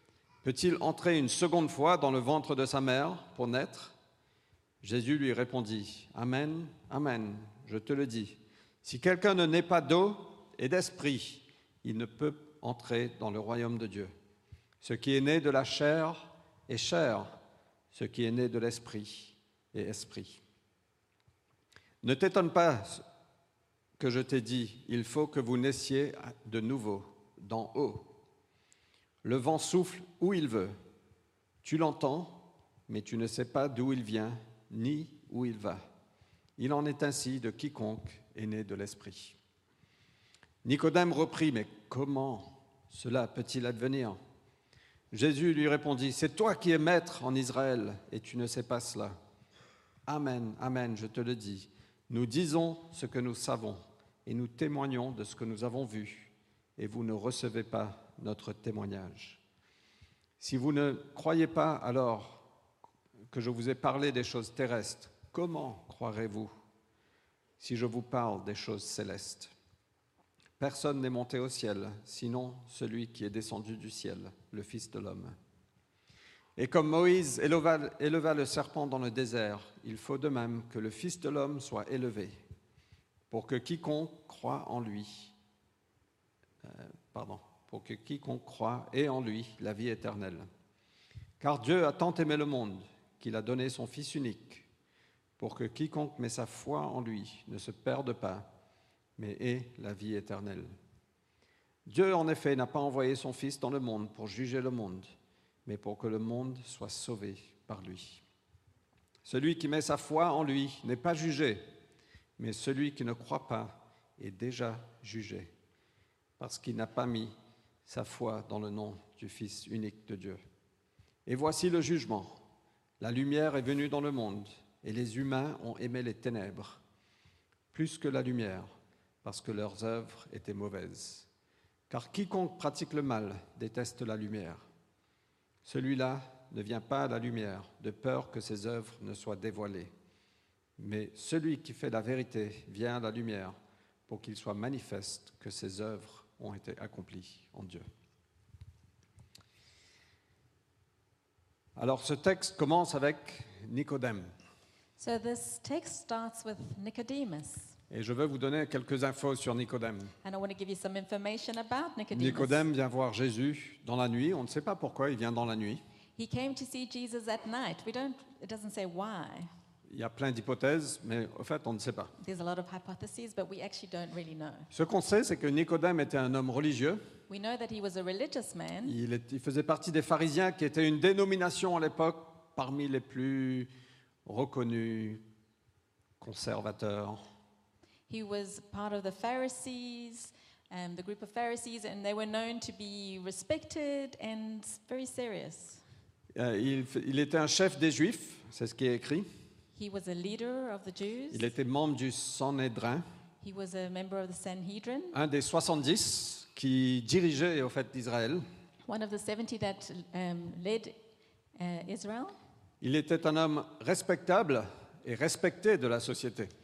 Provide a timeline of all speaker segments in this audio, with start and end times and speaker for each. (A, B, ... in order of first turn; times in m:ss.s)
0:00.4-0:03.9 A
0:04.8-0:14.1 A
0:14.8-0:17.4 A
0:17.9-0:20.4 A
0:22.0-0:23.0 A
0:24.0-0:28.1 A
0:29.2-0:30.7 A
0:31.6-0:35.8 A
0:36.6-0:39.4 A
0:40.6-0:44.2 A
0:45.1-0:49.2 A
0:50.1-0:59.4 A
1:00.4-1:02.4 A
1:03.3-1:06.5 A
1:07.6-1:09.5 A
1:10.6-1:15.4 A
1:16.6-1:22.3 A
1:23.3-1:25.3 A
1:26.6-1:30.4 A
1:31.4-1:34.7 A
1:35.4-1:38.5 A
1:39.2-1:40.7 A
1:41.8-1:45.1 A
1:45.6-1:48.2 A
1:49.2-1:51.6 A
1:52.4-1:55.5 A
1:56.4-1:57.3 A
1:57.8-2:00.4 A
2:01.2-2:02.4 A
2:03.0-2:06.8 A
2:07.7-2:08.7 A
2:09.2-2:11.3 A
2:11.9-2:14.7 A
2:15.6-2:19.9 A
2:20.8-2:23.5 A
2:24.1-2:27.8 A
2:31.8-2:34.3 A
2:35.0-2:37.7 B
2:37.9-2:40.1 A
2:40.2-2:42.6 B
2:42.1-2:45.8 A
2:46.2-2:49.5 B
2:49.9-2:52.1 A
2:52.2-2:54.7 B
2:54.7-2:57.0 A
2:57.3-2:58.9 B
2:58.8-3:03.7 A
3:04.2-3:05.2 A
3:06.2-3:07.2 A
3:08.1-3:15.8 B
3:16.3-3:19.3 A
3:19.7-3:21.5 B
3:21.3-3:23.0 A
3:23.4-3:25.2 B
3:25.1-3:28.4 A
3:28.8-3:31.0 B
3:31.6-3:32.4 B
3:32.8-3:36.5 A